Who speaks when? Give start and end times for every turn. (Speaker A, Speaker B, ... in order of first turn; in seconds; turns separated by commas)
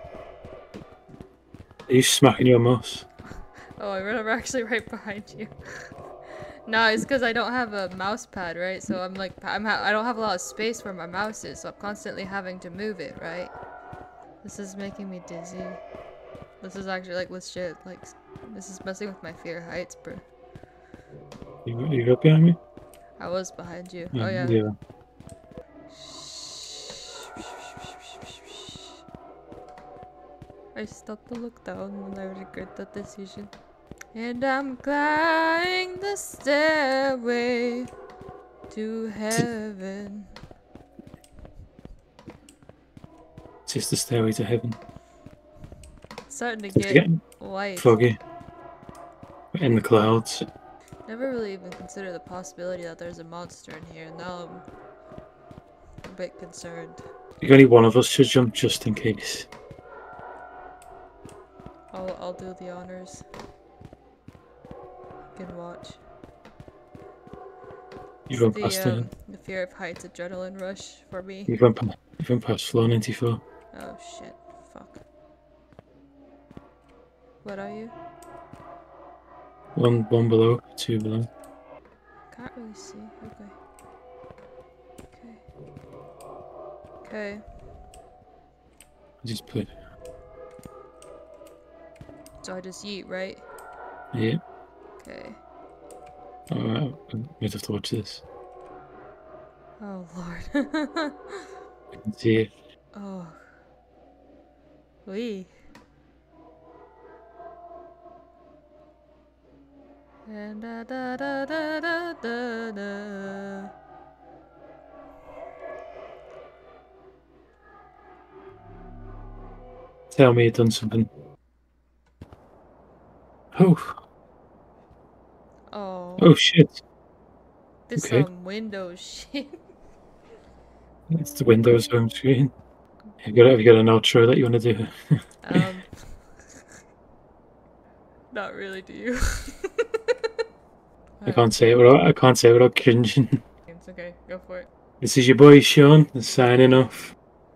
Speaker A: 1.9-3.0, Speaker B: 3.8-13.6, Speaker B: 14.4-15.8, Speaker B: 16.6-20.2, Speaker A: 21.6-22.6, Speaker B: 23.2-24.6, Speaker A: 24.1-24.8, Speaker B: 25.9-29.0, Speaker B: 30.8-33.5, Speaker B: 34.1-37.9, Speaker B: 38.7-40.4, Speaker A: 43.7-44.8, Speaker B: 46.3-48.0, Speaker A: 46.7-47.2, Speaker A: 47.8-48.2, Speaker A: 49.5-50.5, Speaker B: 51.1-54.6, Speaker B: 56.0-57.0, Speaker A: 57.4-59.5, Speaker B: 61.9-63.2, Speaker B: 65.3-66.0, Speaker A: 68.3-69.1, Speaker B: 68.4-71.5, Speaker A: 71.5-73.4, Speaker B: 73.7-75.0, Speaker B: 77.4-78.0, Speaker A: 79.8-81.3, Speaker B: 82.3-83.6, Speaker B: 85.1-85.4, Speaker B: 87.0-87.4, Speaker A: 89.2-89.7, Speaker B: 92.4-93.5, Speaker A: 94.1-94.4, Speaker B: 95.0-95.4, Speaker A: 96.5-98.2, Speaker B: 99.8-101.5, Speaker A: 102.0-102.5, Speaker B: 102.9-103.4, Speaker B: 105.1-105.5, Speaker B: 110.3-113.7, Speaker A: 120.1-121.1, Speaker A: 123.5-124.0, Speaker B: 125.7-126.3, Speaker A: 126.2-126.8, Speaker B: 127.9-129.6, Speaker A: 128.0-128.3, Speaker A: 131.1-132.5, Speaker A: 133.2-135.6, Speaker B: 135.4-136.6, Speaker B: 138.3-140.1, Speaker B: 141.2-141.5, Speaker A: 141.3-143.4, Speaker B: 143.7-144.7, Speaker A: 145.0-147.2